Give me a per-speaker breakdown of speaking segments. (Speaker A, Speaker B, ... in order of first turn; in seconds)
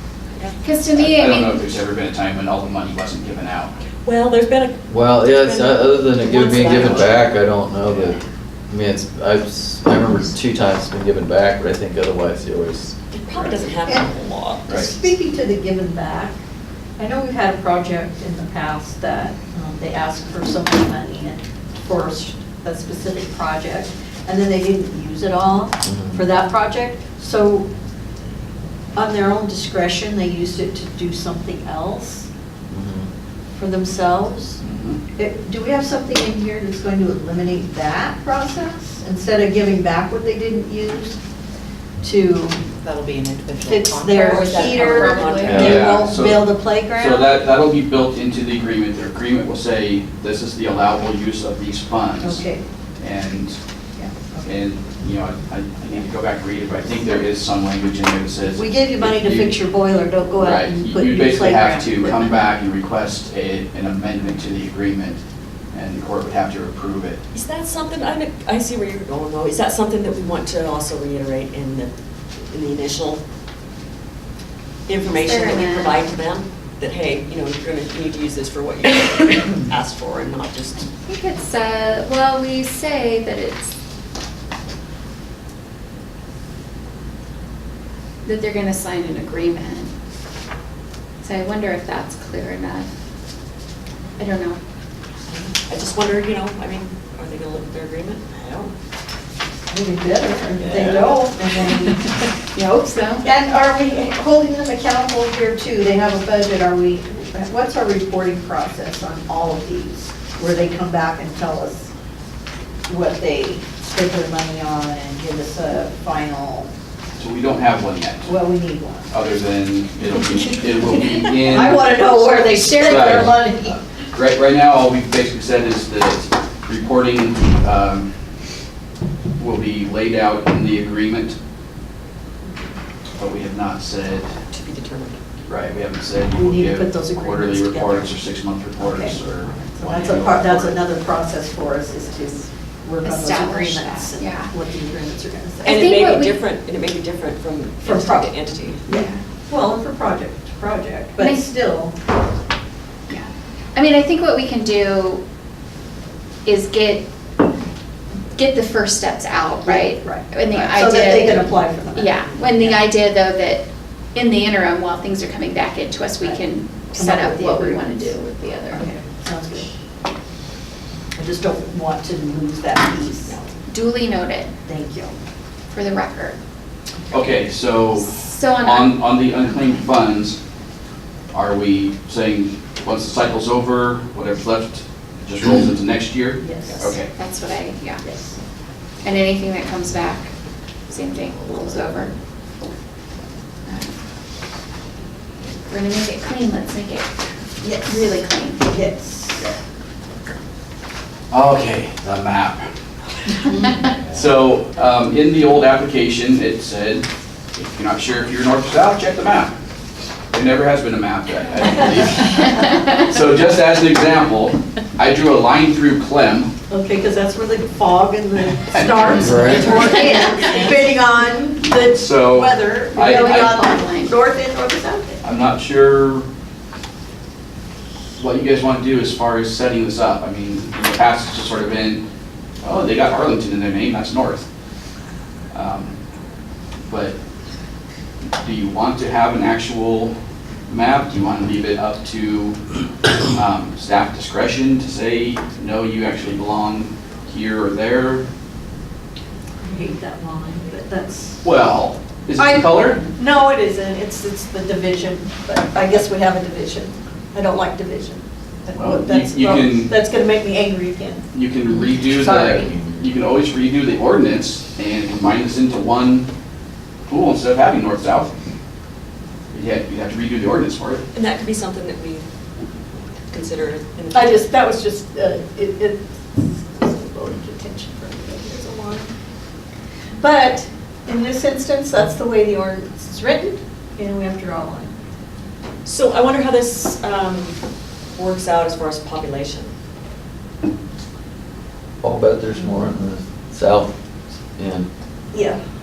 Speaker A: 0.6-1.6, 75.1-76.0, 81.1-83.7, 88.2-89.9, 91.2-92.9, 94.2-94.6, 102.5-103.3, 122.5-123.2, 143.0-144.5, 145.6-146.4, 148.9-149.2, 151.2-151.5, 153.1-155.2, 156.4-157.1, 158.4-168.9, 173.7-174.5, 175.7-176.4, 178.0-179.1, 187.2-188.0, 189.0-190.3, 190.9-192.1, 193.7-193.9, 195.7-197.1, 197.8-198.8, 203.4-203.9, 212.6-212.9, 222.9-224.2
Speaker B: 0.9-3.7, 6.8-7.0, 14.7-14.9, 34.6-35.0, 45.4-52.5, 53.0-53.6, 54.4-59.6, 60.4-65.2, 65.7-67.2, 117.2-118.3, 119.1-122.1, 122.9-123.4, 124.1-128.1, 129.4-131.4, 133.2-134.3, 135.5-140.8, 177.1-180.4, 181.3-187.1, 201.3-202.7, 204.1-209.5, 210.3-216.5, 218.7-219.6, 221.8-223.6, 225.2-226.3, 228.2-232.0, 232.6-234.5, 235.5-235.9, 236.9-237.2, 238.4-240.1, 240.7-242.6, 243.3-248.2, 251.4-253.0, 258.7-259.9, 261.3-266.3, 267.1-268.3, 269.5-271.0
Speaker C: 4.0-7.1, 13.1-14.7, 44.2-45.8, 67.3-71.9, 72.5-73.2, 74.9-80.9, 95.3-98.7, 100.6-101.2, 134.5-135.2, 145.6-148.8, 186.7-187.0, 219.8-220.3, 271.1-272.3, 273.3-274.5, 285.9-287.6, 288.1-289.7
Speaker D: 4.9-8.2, 8.7-12.9, 25.9-26.2, 32.7-33.1, 219.2-220.0, 292.0-293.9, 294.6-294.9
Speaker E: 13.8-14.1, 14.7-16.4, 17.0-27.7, 28.9-32.3, 33.5-34.6, 35.2-41.2, 42.0-42.6, 43.6-47.4, 52.2-52.6, 54.0-54.6, 58.5-62.5, 99.7-102.2, 103.2-111.9, 112.9-116.7, 118.2-119.1, 120.2-123.8, 136.3-138.2, 138.8-139.2, 139.8-145.9, 147.8-151.9, 159.7-162.8, 166.9-168.2, 168.7-169.7, 171.2-173.4, 174.7-175.2, 186.4-187.0, 188.0-188.4, 197.6-199.5, 216.7-225.2, 249.6-251.4, 252.4-261.2, 261.9-262.7, 274.1-279.1, 280.2-284.9, 295.3-295.6
Speaker F: 42.8-45.8